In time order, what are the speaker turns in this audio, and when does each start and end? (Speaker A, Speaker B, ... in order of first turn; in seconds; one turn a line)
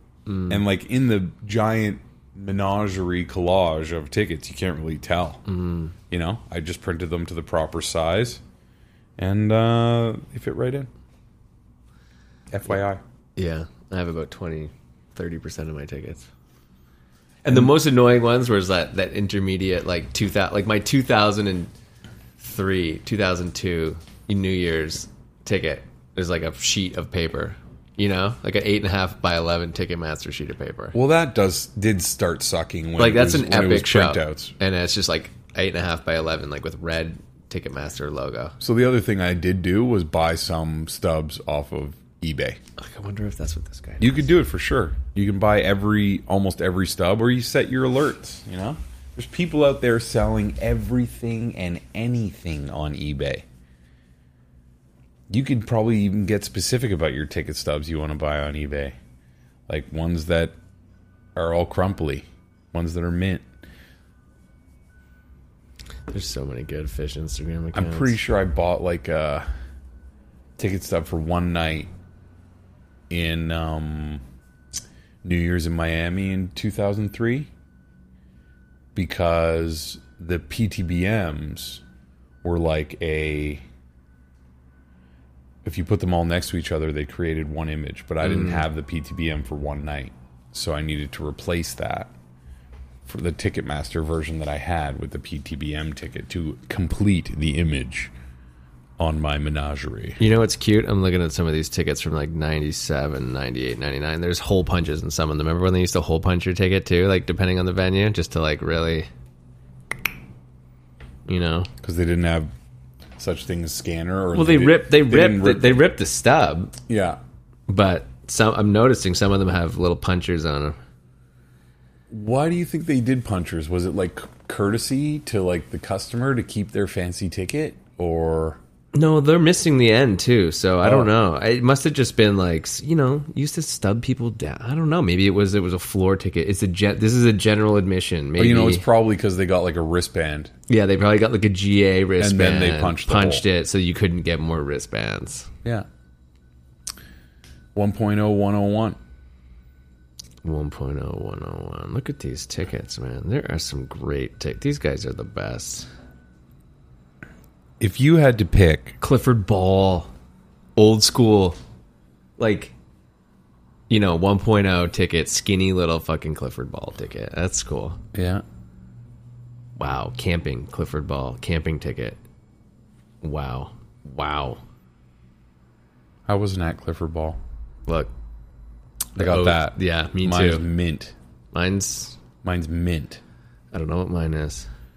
Speaker A: 0.3-0.6
Speaker B: 0.5-5.4
Speaker A: 5.5-5.9
Speaker B: 6.1-8.4
Speaker B: 9.2-10.9
Speaker B: 12.5-13.0
Speaker A: 13.3-16.3
Speaker A: 17.4-21.7
Speaker A: 22.4-30.9
Speaker B: 30.9-34.5
Speaker A: 33.0-38.5
Speaker B: 38.6-42.6
Speaker A: 42.8-44.2
Speaker B: 44.0-53.4
Speaker B: 55.3-58.9
Speaker B: 59.7-60.5
Speaker B: 61.4-63.4
Speaker A: 66.1-68.2
Speaker B: 67.7-69.5
Speaker B: 70.6-71.9
Speaker B: 73.1-74.2
Speaker B: 75.2-77.5
Speaker B: 78.9-81.8
Speaker B: 82.4-83.6
Speaker B: 85.6-92.1
Speaker A: 88.2-88.7
Speaker B: 93.0-98.1
Speaker B: 99.0-100.2
Speaker A: 100.2-109.1
Speaker A: 111.3-111.7
Speaker B: 111.8-112.5
Speaker B: 113.2-115.8
Speaker A: 114.3-116.7
Speaker B: 116.9-117.2
Speaker A: 117.7-120.8
Speaker B: 122.1-128.6
Speaker A: 128.9-138.8
Speaker B: 130.8-131.1
Speaker B: 138.4-140.5
Speaker A: 140.7-145.5
Speaker B: 142.2-143.4
Speaker B: 147.7-149.0
Speaker A: 150.4-155.9
Speaker B: 157.8-158.9
Speaker A: 159.0-160.1
Speaker A: 160.8-161.6
Speaker A: 162.4-162.7
Speaker A: 163.9-168.0
Speaker B: 168.1-168.4
Speaker A: 169.8-172.2
Speaker A: 173.2-174.6
Speaker B: 176.3-177.4
Speaker A: 179.2-180.7
Speaker B: 179.2-181.1
Speaker A: 181.5-182.2
Speaker B: 182.4-183.2
Speaker A: 183.7-184.7